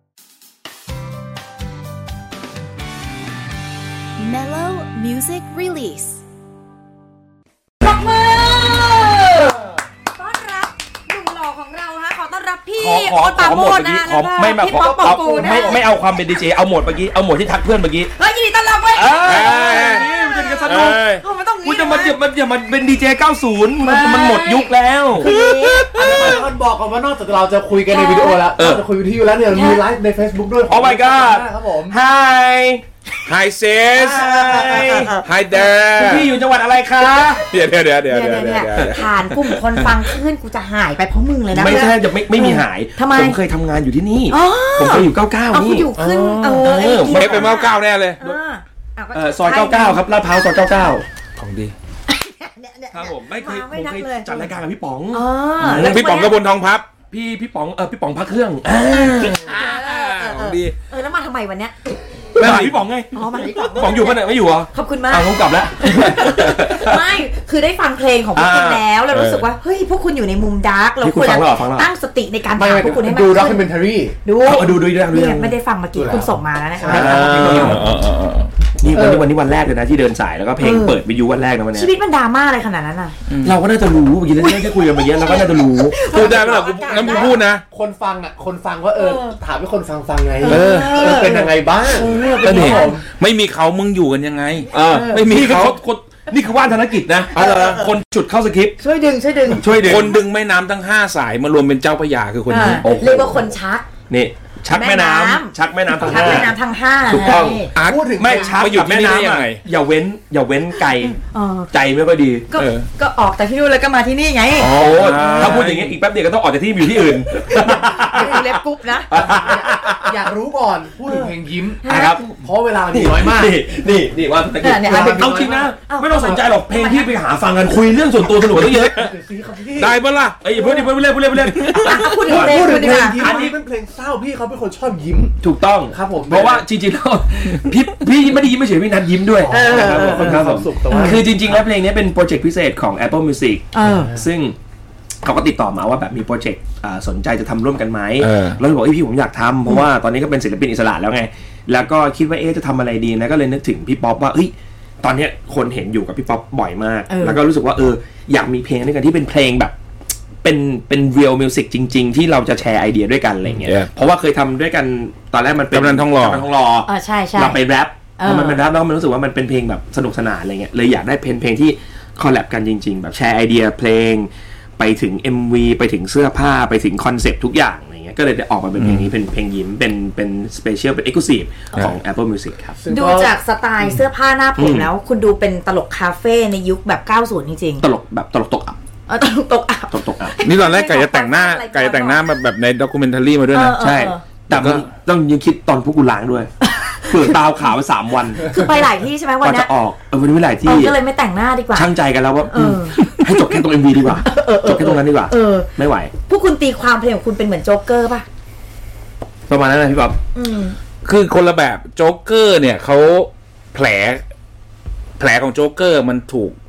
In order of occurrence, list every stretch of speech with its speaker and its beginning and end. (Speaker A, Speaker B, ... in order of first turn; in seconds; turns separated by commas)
Speaker A: 4.2-6.2, Speaker B: 7.8-9.6, Speaker B: 10.1-15.8, Speaker C: 12.8-18.1, Speaker D: 14.8-15.9, Speaker B: 18.1-22.2, Speaker C: 18.9-21.0, Speaker E: 19.2-20.1, Speaker E: 20.6-21.2, Speaker C: 21.6-25.3, Speaker B: 23.8-26.4, Speaker E: 25.3-26.3, Speaker D: 25.9-32.0, Speaker B: 27.9-28.4, Speaker C: 28.6-28.8, Speaker B: 29.5-29.8, Speaker C: 30.7-32.8, Speaker E: 33.2-34.2, Speaker D: 33.9-35.1, Speaker C: 34.0-35.2, Speaker B: 34.2-35.2, Speaker E: 35.2-36.3, Speaker C: 35.9-37.4, Speaker E: 37.4-39.5, Speaker B: 38.1-43.4, Speaker C: 38.8-39.0, Speaker C: 41.5-47.4, Speaker B: 44.3-50.0, Speaker D: 46.0-46.6, Speaker E: 47.1-48.2, Speaker C: 49.1-51.0, Speaker E: 51.4-51.7, Speaker B: 52.1-54.5, Speaker C: 52.9-56.0, Speaker B: 55.1-56.3, Speaker E: 55.6-56.9, Speaker C: 57.1-59.5, Speaker E: 59.3-60.7, Speaker B: 59.3-61.7, Speaker C: 62.4-67.0, Speaker E: 62.4-62.8, Speaker B: 63.1-64.2, Speaker B: 64.7-73.7, Speaker C: 68.3-68.8, Speaker E: 69.1-69.4, Speaker C: 71.0-71.9, Speaker D: 72.5-74.2, Speaker B: 74.2-77.8, Speaker C: 74.4-75.6, Speaker D: 75.9-77.9, Speaker C: 76.8-77.8, Speaker E: 77.3-78.5, Speaker C: 78.8-81.9, Speaker D: 78.9-79.3, Speaker B: 80.6-81.0, Speaker B: 81.7-83.2, Speaker E: 83.3-83.5, Speaker C: 83.4-86.6, Speaker B: 84.4-87.4, Speaker E: 86.0-87.6, Speaker D: 86.2-93.0, Speaker B: 89.0-89.4, Speaker B: 90.4-93.0, Speaker E: 90.5-90.9, Speaker E: 92.4-95.8, Speaker B: 94.7-95.2, Speaker C: 94.7-98.8, Speaker B: 97.3-97.9, Speaker E: 97.4-97.8, Speaker B: 98.8-99.7, Speaker C: 99.5-100.2, Speaker E: 99.8-102.9, Speaker B: 102.5-103.8, Speaker C: 102.5-103.5, Speaker C: 104.1-106.5, Speaker B: 104.7-107.7, Speaker D: 106.0-106.5, Speaker C: 107.1-111.2, Speaker E: 107.2-109.6, Speaker D: 107.7-108.8, Speaker B: 111.0-111.7, Speaker C: 111.7-112.7, Speaker B: 112.5-115.6, Speaker E: 112.6-112.8, Speaker E: 114.6-115.9, Speaker C: 114.6-118.5, Speaker B: 117.4-120.2, Speaker D: 117.5-118.4, Speaker C: 119.1-120.2, Speaker D: 119.1-121.8, Speaker B: 121.1-122.2, Speaker C: 121.9-129.1, Speaker D: 122.4-123.6, Speaker B: 124.6-127.1, Speaker D: 124.8-126.4, Speaker E: 128.6-128.9, Speaker D: 128.9-130.0, Speaker E: 129.8-130.4, Speaker C: 130.4-133.6, Speaker E: 131.4-132.1, Speaker B: 131.7-133.5, Speaker D: 132.2-135.4, Speaker C: 135.4-144.6, Speaker D: 135.9-136.7, Speaker D: 139.3-141.6, Speaker B: 139.5-141.2, Speaker B: 143.7-144.1, Speaker D: 143.8-144.2, Speaker C: 145.2-159.7, Speaker E: 148.2-148.6, Speaker B: 157.1-157.4, Speaker C: 160.4-182.8, Speaker E: 165.7-166.5, Speaker B: 166.8-167.6, Speaker B: 168.2-168.6, Speaker E: 178.8-179.1, Speaker D: 182.7-184.0, Speaker B: 182.9-187.8, Speaker C: 184.6-184.9, Speaker C: 187.8-188.8, Speaker B: 189.1-192.2, Speaker C: 189.9-190.3, Speaker E: 190.4-193.8, Speaker B: 193.5-194.2, Speaker C: 193.8-196.5, Speaker E: 194.5-194.8, Speaker B: 196.6-197.3, Speaker C: 197.1-198.7, Speaker B: 198.4-199.7, Speaker C: 199.4-200.9, Speaker B: 200.6-201.9, Speaker C: 201.7-206.1, Speaker B: 202.5-205.7, Speaker B: 206.3-208.2, Speaker C: 209.5-210.2, Speaker B: 210.3-210.8, Speaker E: 211.0-214.2, Speaker E: 215.2-216.5